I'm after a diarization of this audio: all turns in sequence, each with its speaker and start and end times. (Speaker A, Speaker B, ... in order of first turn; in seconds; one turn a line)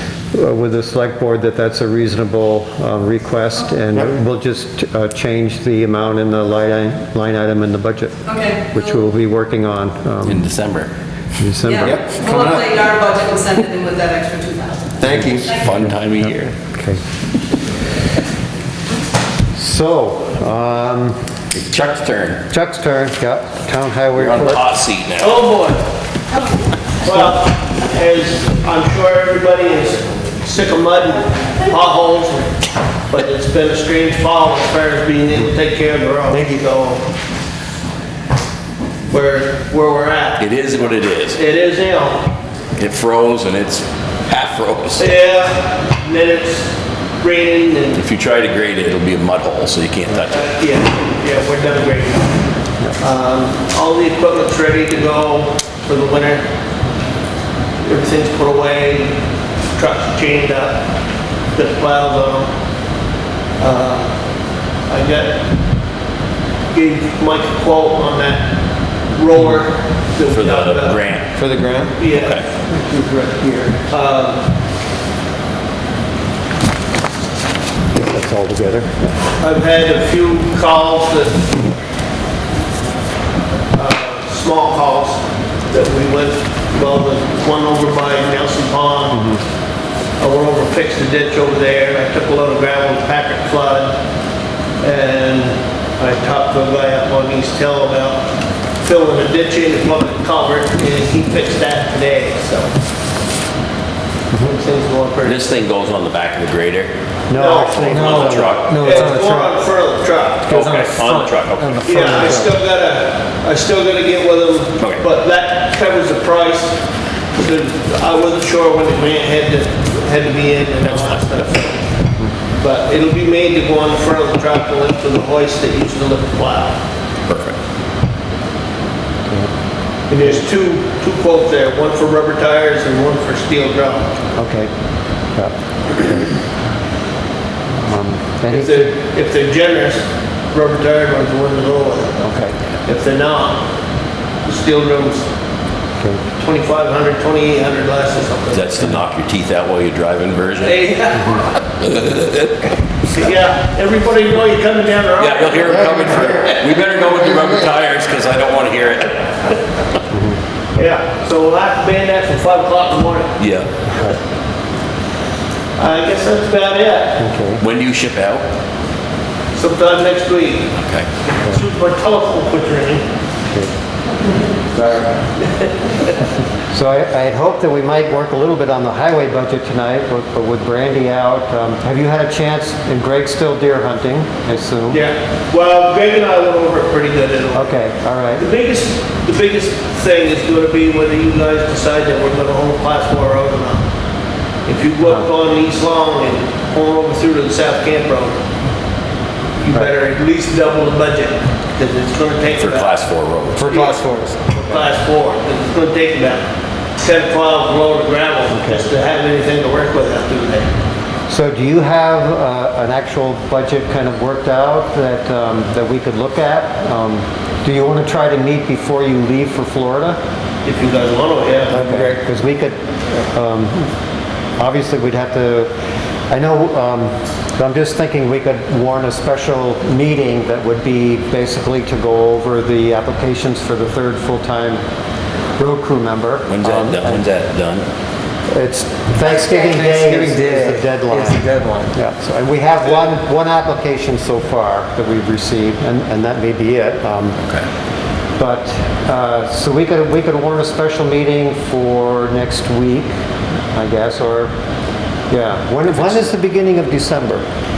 Speaker A: 0.3-10.4
Speaker B: 8.3-8.8
Speaker C: 10.2-10.9
Speaker A: 11.4-12.7
Speaker B: 11.7-15.0
Speaker A: 15.1-17.0
Speaker D: 15.1-15.4
Speaker C: 15.3-16.5
Speaker A: 19.6-21.2
Speaker C: 21.5-22.4
Speaker A: 22.5-24.6
Speaker C: 24.1-25.4
Speaker E: 25.2-25.8
Speaker E: 27.0-32.5
Speaker E: 33.1-37.0
Speaker E: 39.1-40.5
Speaker C: 40.4-41.4
Speaker E: 41.3-42.3
Speaker C: 42.8-45.1
Speaker E: 45.0-48.0
Speaker C: 48.0-50.5
Speaker E: 50.3-52.3
Speaker E: 53.0-56.4
Speaker E: 57.8-59.2
Speaker E: 59.8-60.8
Speaker E: 61.5-62.5
Speaker E: 63.6-64.1
Speaker E: 64.9-65.4
Speaker E: 66.7-68.5
Speaker E: 69.1-71.0
Speaker C: 70.3-71.3
Speaker D: 71.4-71.9
Speaker E: 72.0-74.4
Speaker C: 72.1-72.5
Speaker A: 78.0-79.2
Speaker E: 79.4-81.5
Speaker E: 83.7-89.2
Speaker A: 89.1-89.4
Speaker E: 90.2-94.0
Speaker E: 94.8-98.2
Speaker E: 98.8-102.7
Speaker E: 104.4-105.4
Speaker C: 105.2-106.9
Speaker A: 107.3-109.0
Speaker E: 107.3-110.6
Speaker C: 107.8-109.1
Speaker D: 107.9-109.5
Speaker C: 110.5-112.3
Speaker D: 110.5-112.3
Speaker E: 111.8-116.8
Speaker A: 112.1-112.5
Speaker E: 117.4-121.8
Speaker E: 122.6-126.8
Speaker C: 127.3-127.6
Speaker E: 130.1-134.1
Speaker A: 134.4-134.7
Speaker A: 135.3-136.3
Speaker A: 137.8-138.9
Speaker E: 138.5-142.3
Speaker A: 142.2-142.6
Speaker E: 142.9-143.6
Speaker E: 144.4-145.3
Speaker E: 146.4-148.7
Speaker C: 148.5-150.9
Speaker E: 150.6-151.4
Speaker C: 151.8-152.6
Speaker E: 153.1-156.3
Speaker C: 155.2-159.2
Speaker A: 160.1-160.4
Speaker E: 160.8-163.4
Speaker C: 163.4-163.7
Speaker E: 165.8-167.2
Speaker A: 167.2-167.6
Speaker C: 167.6-168.4
Speaker E: 169.5-170.7
Speaker C: 170.8-171.1
Speaker E: 171.4-173.0
Speaker E: 174.8-176.1
Speaker A: 176.7-185.0
Speaker E: 184.9-187.7
Speaker A: 187.5-188.4
Speaker E: 188.4-193.8
Speaker E: 194.7-198.4
Speaker E: 199.6-202.9
Speaker C: 202.6-203.7
Speaker D: 203.6-204.5
Speaker E: 203.6-206.4
Speaker E: 207.0-210.7
Speaker A: 208.5-208.9
Speaker A: 211.3-220.2
Speaker E: 220.7-221.8
Speaker A: 221.7-223.9
Speaker D: 221.7-222.2
Speaker A: 224.6-225.7
Speaker A: 226.3-234.8
Speaker A: 235.6-237.2
Speaker C: 236.5-237.9
Speaker A: 238.5-247.4
Speaker D: 239.2-241.9
Speaker C: 247.4-247.7
Speaker A: 248.4-253.1
Speaker A: 253.7-254.5
Speaker A: 255.3-257.5